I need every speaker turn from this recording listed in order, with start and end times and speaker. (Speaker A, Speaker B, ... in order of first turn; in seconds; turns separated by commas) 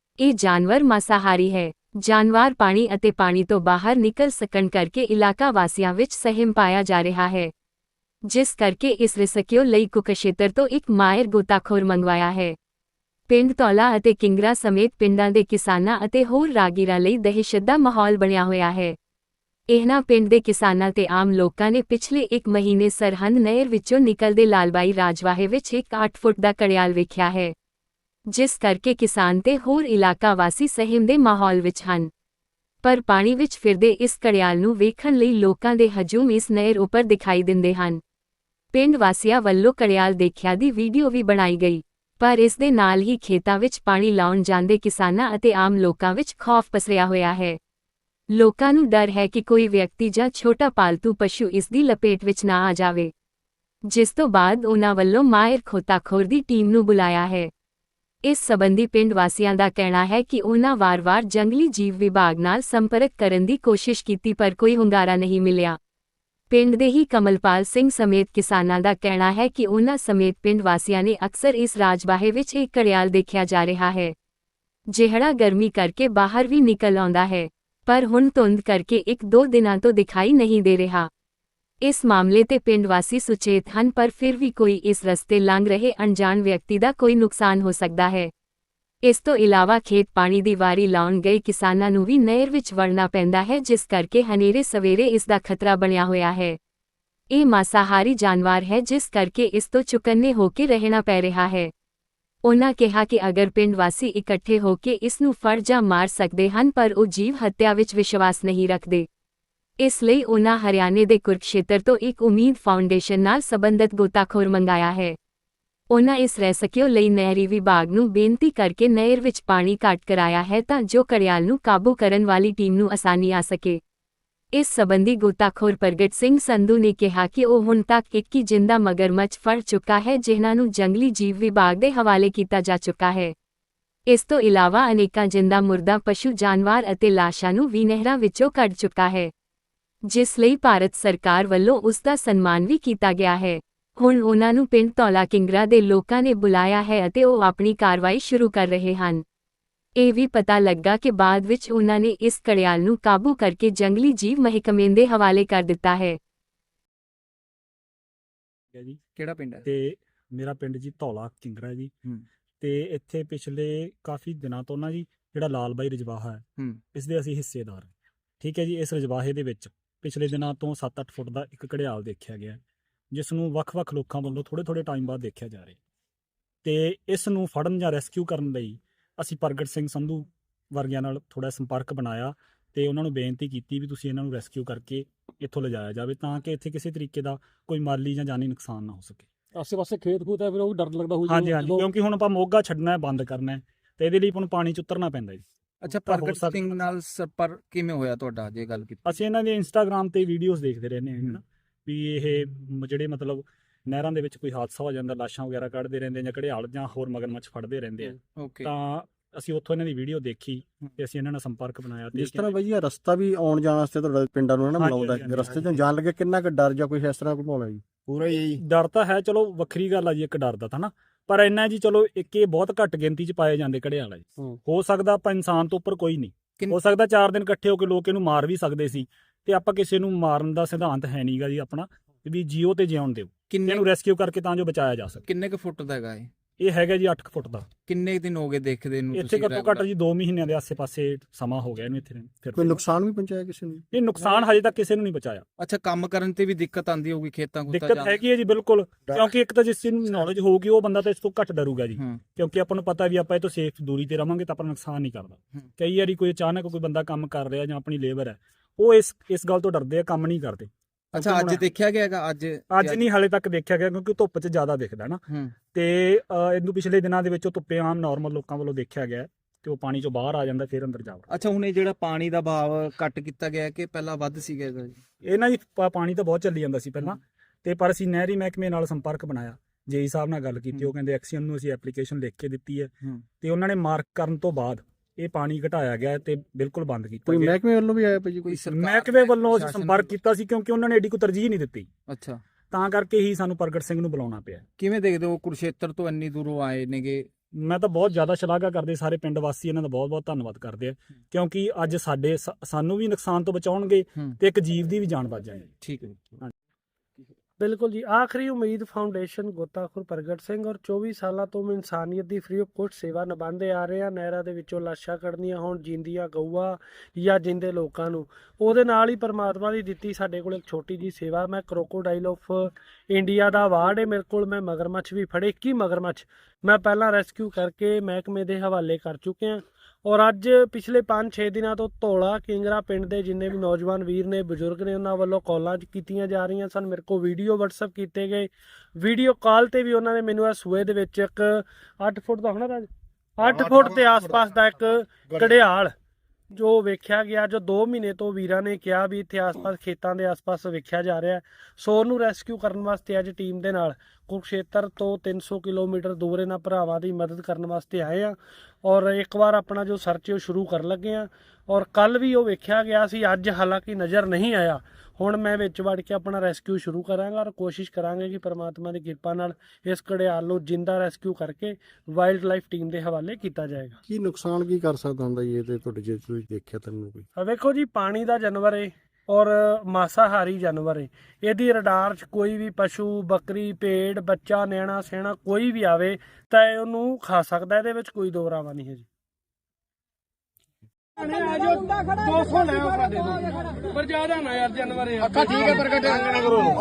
Speaker A: 0.2-7.5, Speaker A: 8.3-12.5, Speaker A: 13.3-18.9, Speaker A: 19.7-27.5, Speaker A: 28.3-32.1, Speaker A: 32.8-38.0, Speaker A: 38.7-47.6, Speaker A: 48.3-53.1, Speaker A: 53.9-57.5, Speaker A: 58.2-65.8, Speaker A: 66.5-74.1, Speaker A: 74.9-81.1, Speaker A: 81.8-88.3, Speaker A: 89.0-96.6, Speaker A: 97.3-101.7, Speaker A: 102.4-109.0, Speaker A: 109.8-115.2, Speaker A: 115.9-123.8, Speaker A: 124.5-133.3, Speaker A: 134.1-139.3, Speaker A: 140.1-149.2, Speaker A: 150.0-156.2, Speaker B: 159.1-159.7, Speaker C: 159.7-161.9, Speaker C: 162.6-166.4, Speaker C: 166.9-172.6, Speaker C: 173.1-175.8, Speaker C: 176.6-189.3, Speaker D: 189.5-191.9, Speaker C: 191.2-196.6, Speaker B: 195.8-199.2, Speaker C: 199.0-212.5, Speaker B: 208.2-208.7, Speaker E: 212.1-217.8, Speaker C: 214.8-215.8, Speaker B: 218.1-218.6, Speaker C: 218.6-235.2, Speaker B: 233.5-233.8, Speaker B: 235.2-236.3, Speaker C: 236.6-237.7, Speaker B: 237.9-239.9, Speaker C: 239.1-242.8, Speaker E: 242.6-243.8, Speaker C: 243.9-245.4, Speaker B: 245.6-248.2, Speaker C: 247.7-261.6, Speaker B: 261.1-263.0, Speaker C: 262.7-265.2, Speaker B: 265.3-265.5, Speaker C: 265.7-271.2, Speaker B: 271.3-275.0, Speaker C: 275.2-287.6, Speaker E: 287.3-288.6, Speaker B: 288.4-290.1, Speaker C: 288.6-291.9, Speaker B: 292.1-292.4, Speaker C: 292.7-294.6, Speaker B: 294.8-297.3, Speaker C: 297.6-305.7, Speaker B: 305.8-306.2, Speaker F: 307.6-345.9, Speaker F: 346.5-374.0, Speaker E: 374.1-377.2, Speaker F: 377.4-389.1, Speaker F: 391.2-396.5